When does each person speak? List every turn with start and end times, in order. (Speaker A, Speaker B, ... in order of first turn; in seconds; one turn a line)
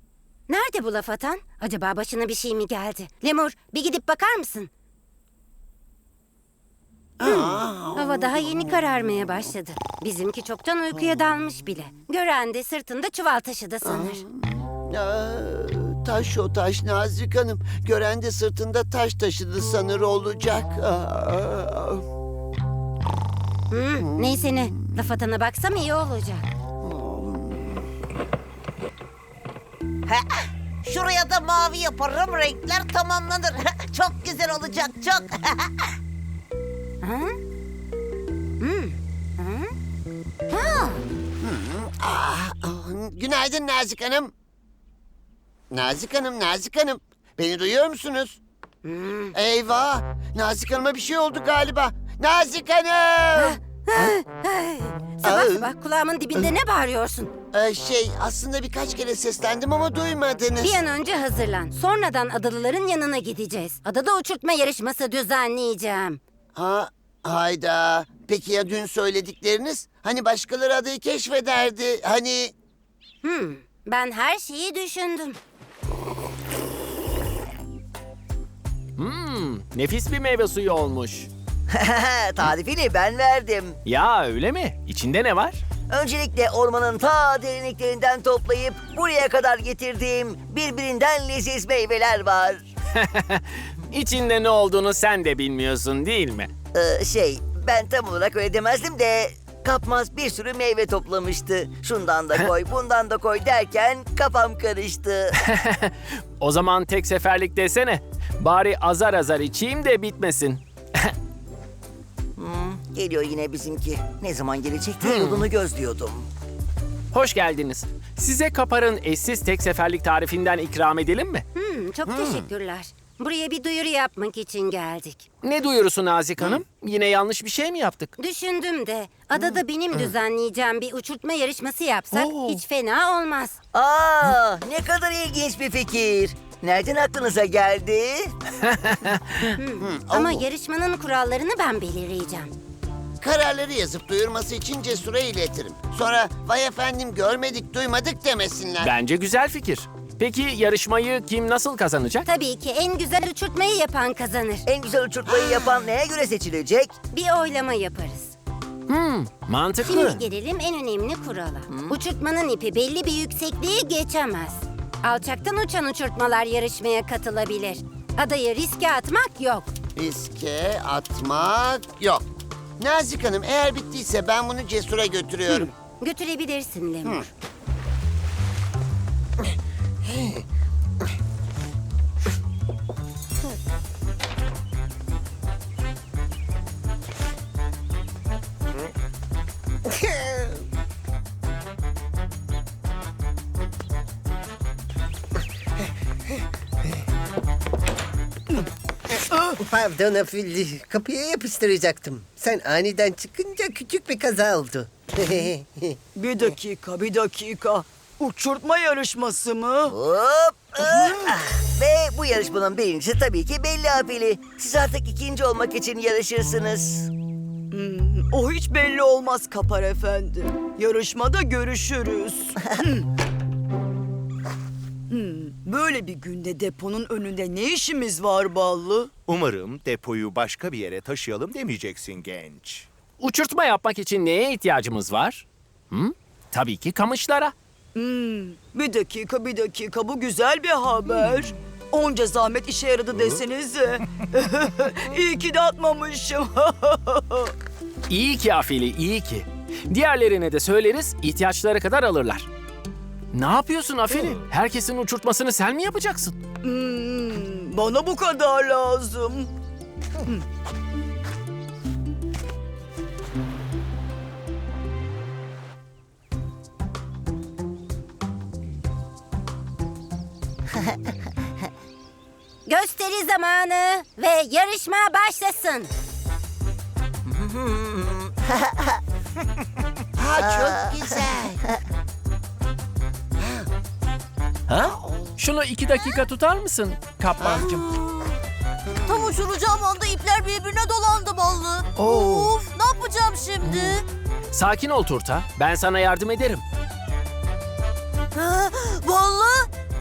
Speaker A: 0.5-4.7
Speaker B: 7.2-8.7
Speaker A: 7.2-14.2
Speaker B: 13.8-22.0
Speaker A: 23.7-26.4
Speaker B: 24.0-24.4
Speaker B: 26.8-27.8
Speaker C: 30.1-35.7
Speaker A: 37.0-37.4
Speaker A: 38.6-39.7
Speaker A: 40.5-41.0
Speaker B: 41.4-44.3
Speaker B: 45.7-48.4
Speaker A: 48.8-49.4
Speaker B: 49.3-54.2
Speaker A: 53.4-57.3
Speaker B: 55.2-55.7
Speaker B: 57.5-60.7
Speaker A: 60.6-66.2
Speaker B: 66.6-72.5
Speaker A: 73.2-75.4
Speaker D: 79.0-81.3
Speaker E: 81.7-83.8
Speaker D: 83.8-85.6
Speaker E: 85.9-92.7
Speaker D: 93.0-96.5
Speaker E: 96.7-105.3
Speaker D: 105.5-111.1
Speaker E: 112.4-116.3
Speaker B: 115.0-115.3
Speaker D: 117.1-121.4
Speaker A: 121.5-125.2
Speaker B: 122.1-122.5
Speaker D: 125.4-128.1
Speaker A: 128.2-133.6
Speaker D: 132.1-132.6
Speaker E: 133.7-138.3
Speaker D: 138.9-139.5
Speaker A: 139.6-142.5
Speaker B: 139.8-140.4
Speaker B: 143.2-148.9
Speaker D: 148.8-152.3
Speaker A: 152.2-154.6
Speaker E: 154.6-156.9
Speaker B: 155.3-155.9
Speaker A: 157.1-158.3
Speaker D: 158.9-160.2
Speaker A: 159.8-169.7
Speaker E: 161.7-162.0
Speaker B: 169.9-172.2
Speaker B: 172.8-175.7
Speaker A: 175.5-177.3
Speaker F: 180.1-180.3
Speaker F: 189.9-190.5
Speaker F: 199.6-206.0
Speaker G: 206.2-210.0
Speaker E: 209.9-217.1
Speaker G: 210.8-211.4
Speaker G: 217.7-223.1
Speaker G: 225.1-229.1
Speaker H: 229.3-232.9
Speaker D: 233.2-237.5
Speaker G: 237.9-247.5
Speaker D: 248.1-252.5
Speaker D: 253.3-256.4
Speaker G: 256.6-259.5
Speaker A: 272.6-275.9
Speaker E: 277.3-279.0
Speaker B: 280.2-281.6
Speaker E: 280.4-281.8
Speaker B: 283.4-283.7
Speaker D: 284.7-287.8
Speaker B: 284.9-285.3
Speaker B: 287.4-287.8
Speaker I: 289.1-294.0
Speaker B: 289.1-289.3
Speaker B: 292.0-292.5
Speaker B: 293.7-293.9
Speaker D: 294.5-296.6
Speaker I: 298.4-299.7